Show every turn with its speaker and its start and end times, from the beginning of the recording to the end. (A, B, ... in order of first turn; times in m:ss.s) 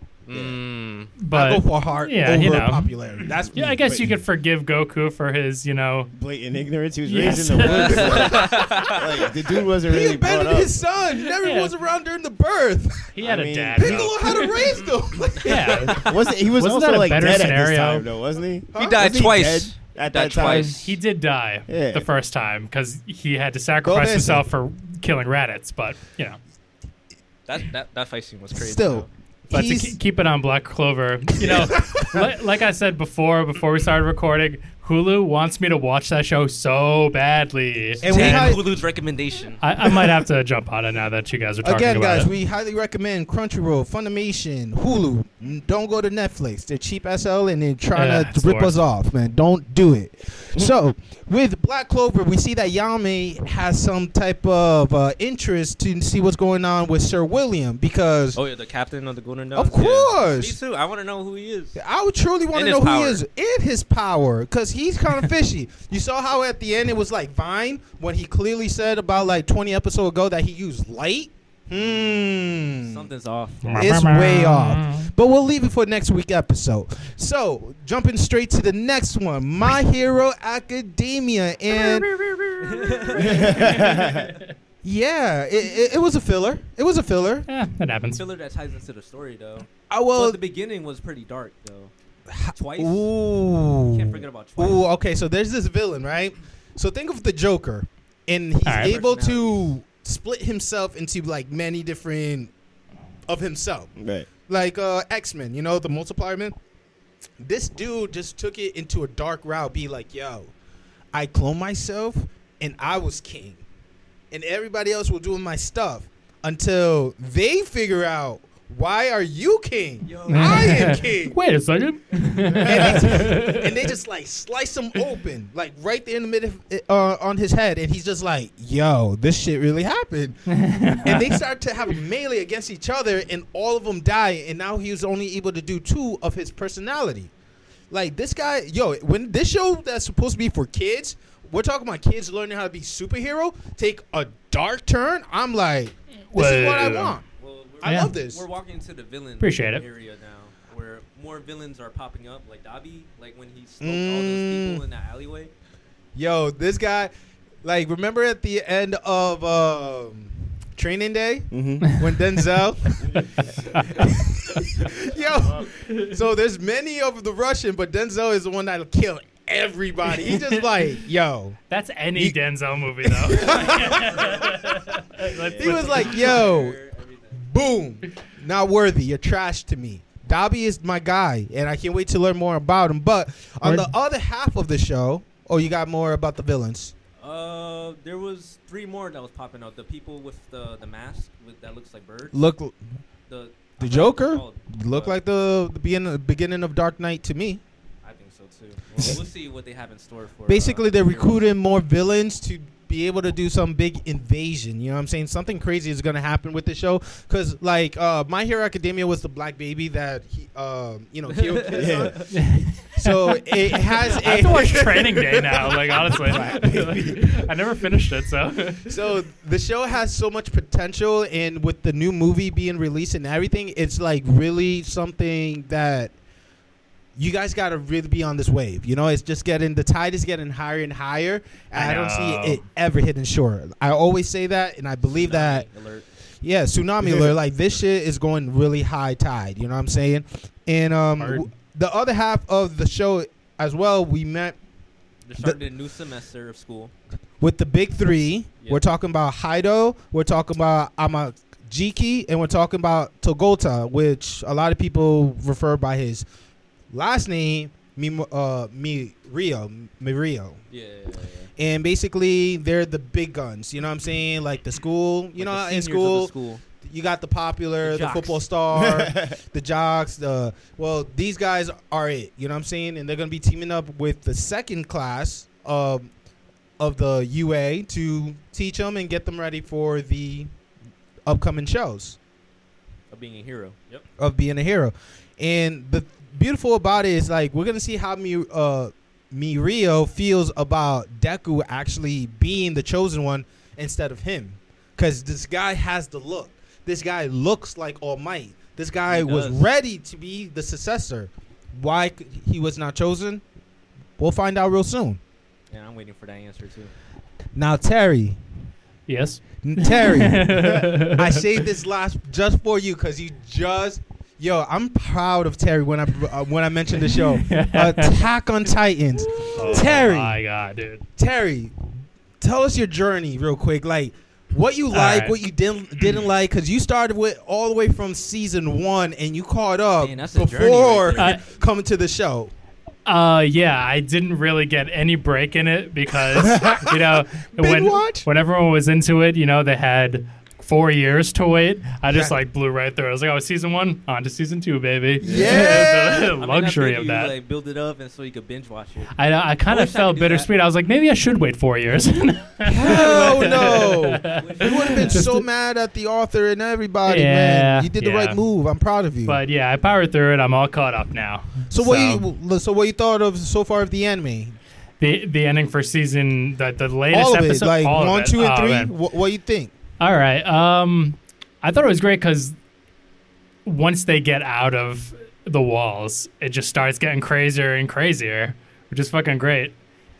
0:00.2-0:01.1 A
0:00.3-0:00.6 B
0:01.2-0:02.9 C
0:01.3-0:03.8 D
0:03.5-0:06.1 C
0:03.5-0:04.2 B
0:06.1-0:10.8 B
0:07.0-0:08.3 C
0:07.6-0:09.0 A
0:08.0-0:08.9 D
0:09.8-0:13.1 D
0:11.4-0:11.7 C
0:13.1-0:14.6 C
0:13.2-0:14.1 B
0:13.8-0:16.1 D
0:15.4-0:18.1 C
0:15.9-0:20.9 B
0:18.7-0:19.0 D
0:18.8-0:20.8 A
0:20.4-0:26.4 C
0:21.7-0:22.1 B
0:23.8-0:24.4 D
0:27.5-0:29.1 A
0:28.5-0:30.0 D
0:29.5-0:38.6 C
0:31.4-0:32.3 D
0:38.0-0:38.7 D
0:38.0-0:39.6 A
0:39.6-0:42.3 C
0:41.6-0:58.4 D
0:47.9-0:48.8 C
0:58.4-1:01.8 A
0:59.5-1:00.6 D
1:01.8-1:13.0 D
1:02.5-1:03.2 A
1:11.8-1:13.8 A
1:13.6-1:15.1 C
1:13.8-1:23.7 D
1:22.6-1:23.7 A
1:23.2-1:24.3 B
1:23.3-1:24.5 C
1:24.8-1:27.4 D
1:27.5-1:28.2 C
1:28.2-1:31.9 A
1:29.9-1:30.4 D
1:32.3-1:42.5 D
1:32.5-1:33.1 A
1:33.9-1:34.9 A
1:38.6-1:38.9 C
1:38.7-1:39.7 A
1:43.3-1:46.5 D
1:44.0-1:44.3 B
1:47.4-1:50.5 D
1:51.1-1:53.6 D
1:54.3-2:01.4 D
2:00.0-2:01.1 A
2:00.3-2:03.7 C
2:02.6-2:10.4 D
2:02.8-2:03.1 A
2:10.5-2:11.4 C
2:11.0-2:17.3 D
2:17.9-2:27.2 D
2:26.3-2:27.2 C
2:27.4-2:35.5 A
2:27.8-2:28.4 D
2:27.8-2:28.1 C
2:29.4-2:29.8 C
2:33.8-2:34.8 D
2:36.1-2:37.1 D
2:37.6-2:43.1 D
2:41.5-2:41.9 B
2:43.0-2:44.0 B
2:43.2-2:44.0 C
2:43.8-2:51.6 D
2:45.4-2:45.7 B
2:51.7-2:56.4 C
2:53.0-2:54.6 D
2:54.2-2:54.7 A
2:55.5-2:56.0 B
2:55.5-2:57.4 A
2:55.5-2:56.8 D
2:57.4-3:06.9 D
3:03.6-3:03.9 C
3:07.2-3:12.4 A
3:12.3-3:12.8 D
3:13.3-3:15.2 A
3:13.8-3:17.6 D
3:18.0-3:21.4 A
3:20.5-3:35.7 D
3:31.3-3:32.2 A
3:31.7-3:32.2 B
3:32.3-3:39.0 C
3:36.0-3:37.4 B
3:38.9-3:46.1 D
3:47.2-3:55.6 D
3:51.7-3:52.6 C
3:55.0-3:56.1 A
3:56.4-4:04.6 D
3:57.0-3:57.3 B
4:05.2-4:06.9 A
4:07.4-4:16.2 D
4:16.9-4:20.6 D
4:20.7-4:21.5 A
4:21.6-4:36.1 D
4:25.4-4:26.6 A
4:27.8-4:28.4 A
4:28.7-4:29.3 B
4:36.8-4:40.5 D
4:41.2-4:42.2 D
4:43.1-4:44.0 A
4:44.2-5:03.4 D
4:59.1-4:59.7 A
5:04.2-5:05.2 D
5:05.7-5:06.9 A
5:07.5-5:08.4 D
5:09.1-5:11.5 C
5:09.6-5:20.4 D
5:17.3-5:18.2 C
5:19.4-5:21.0 C
5:19.6-5:20.0 B
5:21.2-5:21.8 D
5:22.4-5:32.5 D
5:24.9-5:25.4 C
5:30.0-5:31.4 A
5:31.2-5:31.4 C
5:33.0-5:47.3 C
5:36.3-5:38.3 D
5:42.1-5:42.4 D
5:45.2-5:46.3 D
5:45.2-5:45.6 B
5:45.4-5:49.1 A
5:49.2-5:55.4 C
5:49.7-5:50.5 A
5:52.6-5:59.4 D
5:53.0-5:55.2 A
5:57.0-5:58.4 C
5:59.2-6:02.3 C
6:01.7-6:04.6 D
6:05.0-6:08.9 C
6:07.1-6:09.7 D
6:10.0-6:12.6 C
6:13.6-6:19.7 C